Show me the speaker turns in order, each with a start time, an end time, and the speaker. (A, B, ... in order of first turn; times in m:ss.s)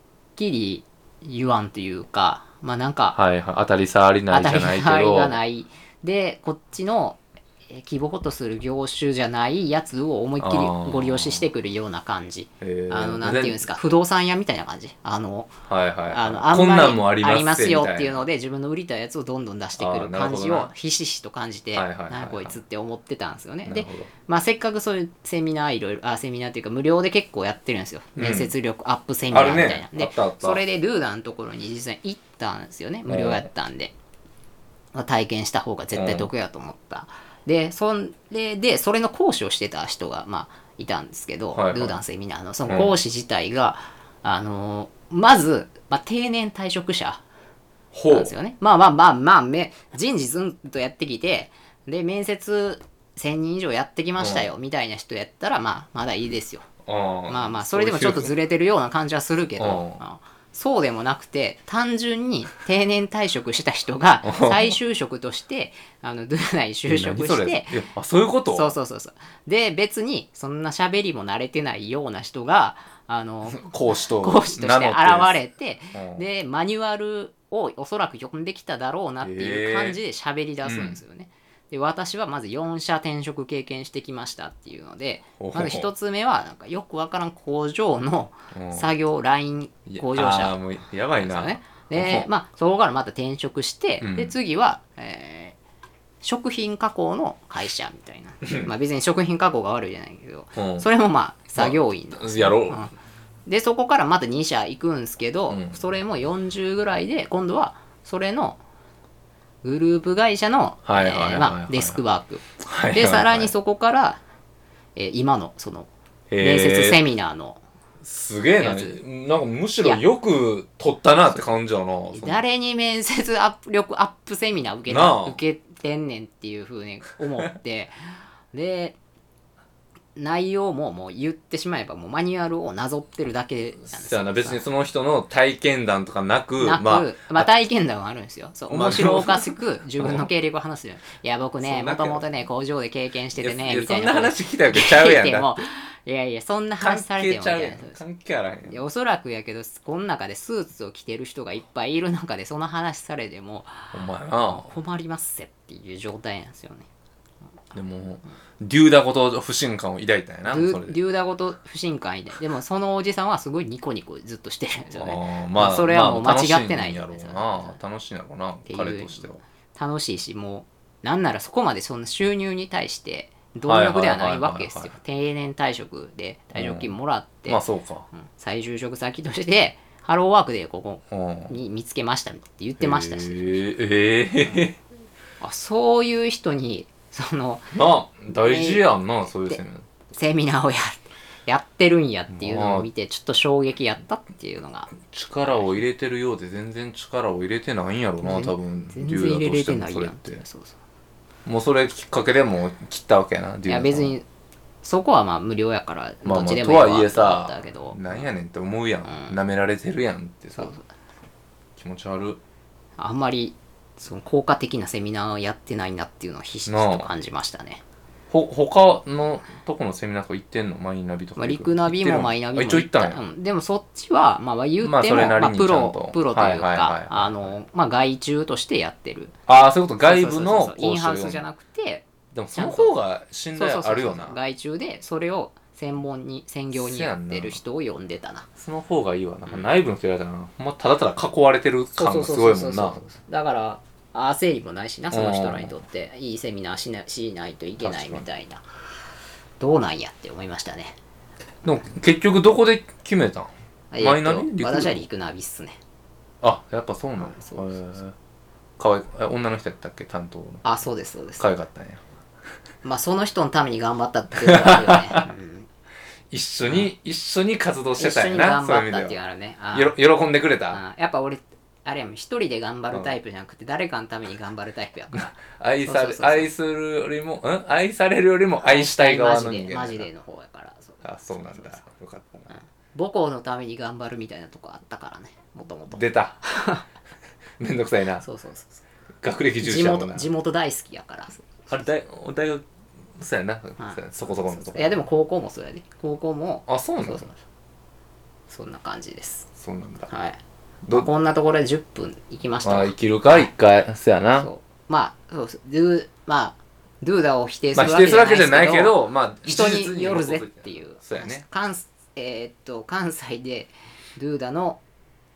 0:00.4-0:03.2 A
0:03.1-0:05.4 B
0:04.3-0:15.6 A
0:10.4-0:11.5 B
0:12.6-0:13.6 B
0:15.7-0:18.2 B
0:16.1-0:33.9 A
0:19.8-0:20.7 B
0:21.7-0:22.6 B
0:23.6-0:24.1 B
0:28.2-0:28.5 B
0:29.3-0:30.6 B
0:33.1-0:33.5 B
0:34.9-0:47.2 A
0:35.9-0:36.3 B
0:41.5-0:41.9 B
0:42.7-0:43.0 B
0:47.9-0:48.3 B
0:48.1-0:56.7 A
0:54.2-0:54.5 B
0:56.8-0:58.3 B
0:57.3-1:07.8 A
0:59.6-1:00.0 B
1:04.2-1:04.7 B
1:06.9-1:08.7 B
1:08.5-1:30.6 A
1:13.5-1:15.4 B
1:15.9-1:16.2 B
1:19.2-1:20.0 B
1:20.6-1:21.0 B
1:25.4-1:25.9 B
1:28.5-1:28.9 B
1:29.9-1:32.3 B
1:31.1-1:35.6 A
1:34.0-1:34.3 B
1:36.2-1:42.9 A
1:38.4-1:38.7 B
1:40.6-1:40.9 B
1:41.6-1:42.8 B
1:43.4-1:48.6 A
1:45.5-1:45.8 B
1:49.6-1:54.2 A
1:50.8-1:52.0 B
1:52.6-1:53.5 B
1:55.0-1:57.6 A
1:56.3-1:57.0 B
1:58.0-2:02.4 B
1:58.6-1:59.0 A
2:02.1-2:07.9 A
2:04.9-2:05.4 B
2:08.5-2:09.0 A
2:10.2-2:14.6 A
2:13.8-2:17.5 B
2:16.6-2:28.0 A
2:18.7-2:20.3 B
2:21.6-2:22.2 B
2:23.4-2:25.6 B
2:26.8-2:28.8 B
2:28.6-2:36.8 A
2:33.9-2:34.7 B
2:37.7-2:41.0 B
2:40.4-2:47.8 A
2:44.9-2:49.4 B
2:48.6-2:57.6 A
2:53.6-2:54.9 B
2:56.5-2:56.9 B
2:57.4-2:58.1 B
2:58.1-3:03.4 A
3:01.1-3:01.5 B
3:02.8-3:04.8 B
3:05.4-3:07.7 A
3:07.7-3:09.8 B
3:08.3-3:08.8 A
3:10.1-3:14.9 A
3:12.3-3:12.9 B
3:15.0-3:20.4 B
3:18.2-3:20.7 A
3:21.4-3:24.1 B
3:23.7-3:24.2 A
3:24.8-3:28.3 A
3:26.2-3:30.7 B
3:29.0-3:29.4 A
3:30.6-3:30.8 A
3:31.8-3:32.4 B
3:33.0-3:37.8 A
3:36.7-3:37.1 B
3:38.3-3:43.2 B
3:41.4-3:49.4 A
3:44.8-3:47.5 B
3:49.5-3:51.4 B
3:50.0-3:53.0 A
3:52.3-3:54.4 B
3:53.5-3:58.5 A
3:56.7-3:57.6 B
3:58.6-4:03.0 B
4:01.9-4:08.6 A
4:05.1-4:05.8 B
4:07.8-4:08.2 B
4:09.6-4:10.9 A
4:11.6-4:15.0 B
4:13.9-4:15.8 A
4:16.4-4:18.1 B
4:17.2-4:18.0 A
4:18.8-4:20.6 B
4:20.6-4:21.4 A
4:21.4-4:22.0 B
4:22.8-4:25.7 A
4:24.4-4:25.3 B
4:26.3-4:29.2 B
4:28.0-4:30.0 A
4:29.7-4:30.8 B
4:30.7-4:36.5 A
4:35.1-4:40.1 B
4:38.6-4:41.8 A
4:41.0-4:42.5 B
4:42.5-4:46.8 A
4:45.9-4:46.4 B
4:47.6-4:48.2 B
4:48.2-4:48.8 A
4:49.2-4:50.3 B
4:49.6-4:51.7 A
4:51.7-4:52.6 B
4:53.2-4:55.0 B
4:53.8-4:57.4 A
4:56.7-4:57.3 B
4:58.5-4:59.5 A
4:59.6-5:00.1 B
5:00.1-5:03.5 A
5:02.6-5:04.5 B
5:04.4-5:14.8 A
5:07.7-5:11.4 B